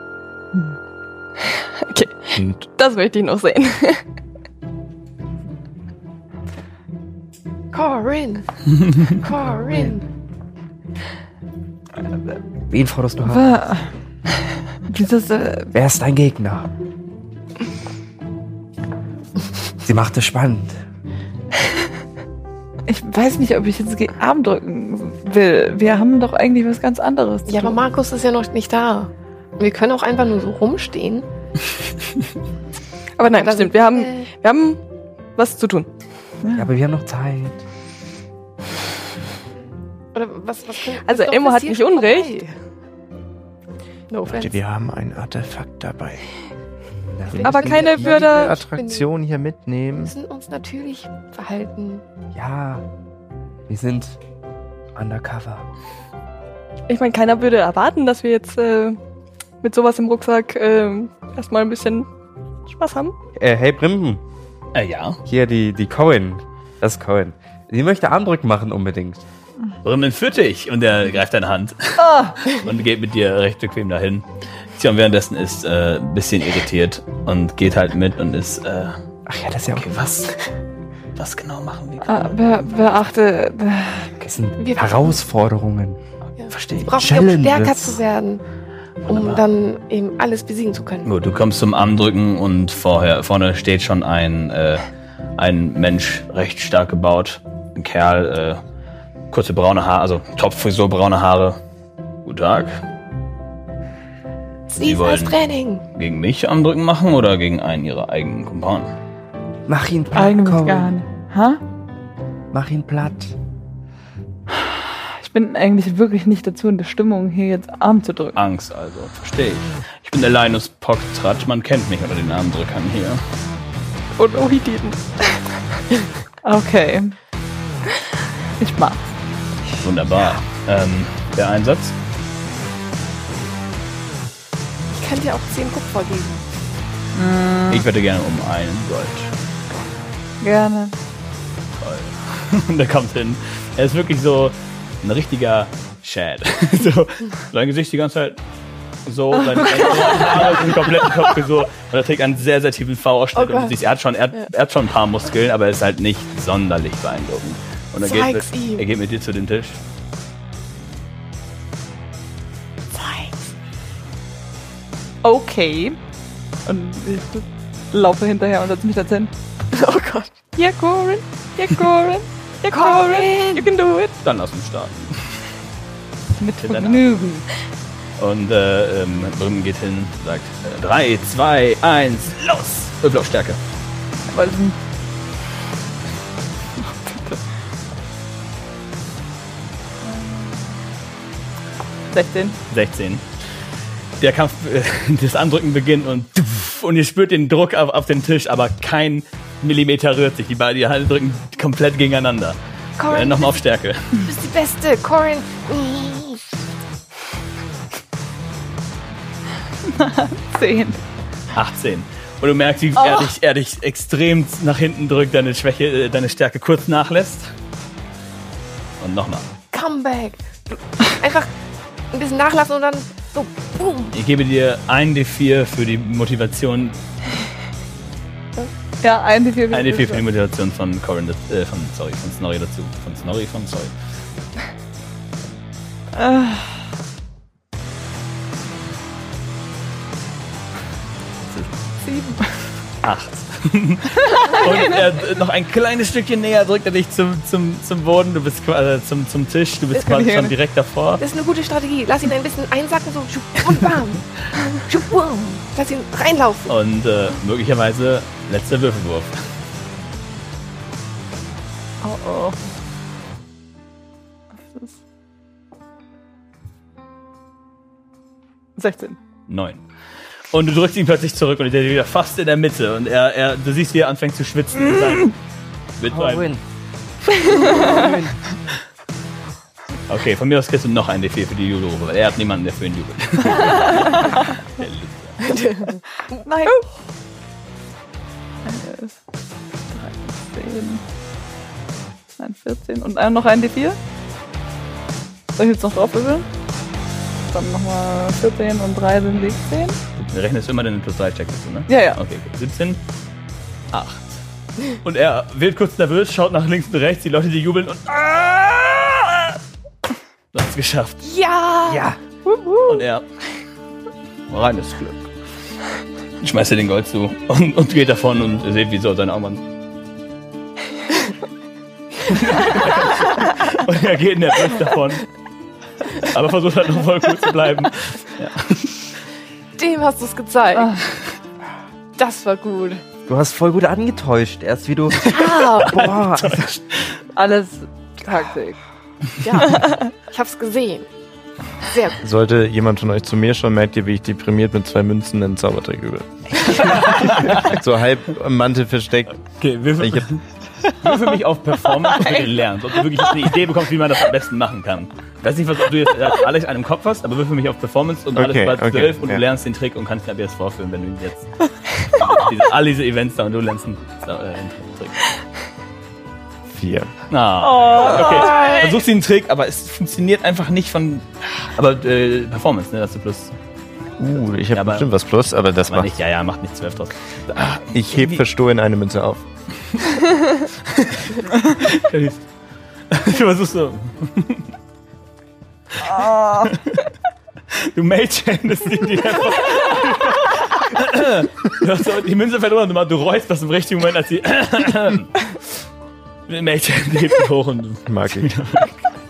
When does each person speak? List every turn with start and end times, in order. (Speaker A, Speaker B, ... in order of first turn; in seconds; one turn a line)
Speaker A: 1.8-4.0
Speaker B: 2.4-2.7
Speaker C: 7.7-10.0
Speaker D: 9.6-10.0
Speaker D: 12.7-13.5
Speaker E: 13.3-13.9
Speaker E: 14.9-15.7
Speaker D: 15.7-16.7
Speaker D: 19.9-20.8
Speaker E: 22.9-27.8
Speaker C: 27.5-31.2
Speaker A: 33.2-34.8
Speaker C: 33.2-34.3
Speaker A: 35.4-35.9
Speaker D: 36.5-37.6
Speaker C: 40.1-42.5
Speaker A: 41.0-42.4
Speaker C: 44.1-44.6
Speaker B: 44.3-46.2
Speaker D: 47.0-48.3
Speaker B: 47.3-50.1
Speaker A: 47.4-48.6
Speaker C: 47.7-49.1
Speaker C: 50.1-52.0
Speaker D: 52.3-52.8
Speaker D: 53.7-54.2
Speaker D: 55.0-55.7
Speaker A: 56.9-59.0
Speaker A: 59.6-62.1
Speaker A: 62.7-63.1
Speaker D: 63.4-64.2
Speaker F: 64.8-65.2
Speaker D: 65.2-69.2
Speaker F: 69.8-79.0
Speaker E: 72.0-72.4
Speaker D: 79.3-79.9
Speaker F: 79.8-80.4
Speaker F: 81.2-82.7
Speaker E: 82.0-84.1
Speaker D: 84.2-86.0
Speaker C: 84.6-85.2
Speaker C: 86.4-88.4
Speaker F: 86.4-87.1
Speaker D: 86.9-88.0
Speaker F: 89.1-89.5
Speaker C: 89.1-91.1
Speaker F: 91.0-94.8
Speaker F: 95.4-98.6
Speaker F: 99.3-101.6
Speaker F: 102.2-102.8
Speaker C: 104.7-105.8
Speaker F: 104.8-105.4
Speaker F: 105.9-108.9
Speaker D: 109.7-110.9
Speaker E: 110.1-111.6
Speaker D: 112.5-113.3
Speaker E: 114.6-118.4
Speaker F: 118.3-123.2
Speaker A: 124.2-125.6
Speaker E: 126.4-127.2
Speaker E: 128.6-129.1
Speaker F: 129.8-131.9
Speaker C: 135.0-136.4
Speaker E: 137.2-137.8
Speaker F: 137.7-139.3
Speaker E: 140.4-140.9
Speaker F: 141.8-148.4
Speaker F: 149.1-159.8
Speaker C: 153.4-153.8
Speaker C: 158.0-158.8
Speaker C: 162.9-163.5
Speaker E: 165.2-166.0
Speaker E: 166.7-169.3
Speaker C: 169.7-170.3
Speaker A: 170.6-174.2
Speaker C: 172.8-173.7
Speaker F: 174.2-175.5
Speaker E: 176.4-177.4
Speaker F: 176.6-177.1
Speaker F: 178.2-183.6
Speaker E: 184.3-184.8
Speaker E: 186.8-187.4
Speaker E: 192.1-192.6
Speaker F: 192.7-193.3
Speaker F: 194.2-204.2
Speaker C: 203.0-203.6
Speaker C: 204.3-206.4
Speaker E: 209.9-211.0
Speaker F: 211.5-217.5
Speaker C: 213.0-213.3
Speaker F: 219.0-219.4
Speaker C: 219.7-221.5
Speaker C: 222.1-224.1
Speaker F: 224.1-227.0
Speaker E: 229.0-230.2
Speaker F: 229.7-233.9
Speaker E: 236.1-236.8
Speaker E: 242.0-242.8
Speaker F: 243.0-251.2
Speaker E: 244.3-244.7
Speaker E: 250.0-250.5
Speaker C: 251.2-256.7
Speaker F: 256.7-259.4
Speaker E: 262.0-262.6
Speaker E: 264.7-264.9
Speaker E: 268.8-269.2
Speaker F: 269.5-269.8
Speaker F: 270.5-275.4
Speaker F: 276.0-276.5
Speaker D: 276.1-276.6
Speaker D: 277.2-278.4
Speaker F: 280.1-285.5
Speaker C: 285.4-286.0
Speaker E: 286.4-286.8
Speaker E: 288.6-289.1
Speaker E: 289.9-291.0
Speaker E: 292.4-294.0
Speaker E: 295.6-296.5
Speaker E: 297.5-300.0
Speaker F: 300.2-303.0
Speaker E: 301.9-302.2
Speaker F: 303.9-304.4
Speaker F: 305.0-309.6
Speaker F: 310.5-311.2
Speaker C: 311.2-313.0
Speaker D: 311.9-312.2
Speaker F: 312.9-313.3
Speaker F: 314.5-315.3
Speaker F: 316.4-319.6
Speaker F: 322.3-325.3
Speaker F: 326.2-329.0
Speaker C: 329.8-331.0
Speaker C: 332.2-333.0
Speaker D: 333.3-336.7
Speaker F: 335.2-337.2
Speaker C: 335.3-336.1
Speaker E: 337.4-338.8
Speaker C: 339.4-341.1
Speaker C: 341.8-342.2
Speaker B: 342.2-346.4
Speaker F: 346.8-347.8
Speaker B: 347.6-349.5
Speaker F: 349.6-365.2
Speaker B: 350.0-350.3
Speaker E: 350.9-351.1
Speaker E: 352.0-352.5
Speaker B: 358.4-359.4
Speaker B: 366.7-367.2
Speaker F: 367.3-373.5
Speaker E: 367.6-369.0
Speaker B: 374.2-376.1
Speaker F: 374.7-375.1
Speaker F: 375.8-378.4
Speaker B: 377.9-379.5
Speaker F: 381.8-382.5
Speaker F: 383.1-384.7
Speaker F: 386.0-387.1
Speaker F: 387.7-395.6
Speaker F: 396.5-399.1
Speaker B: 398.1-398.5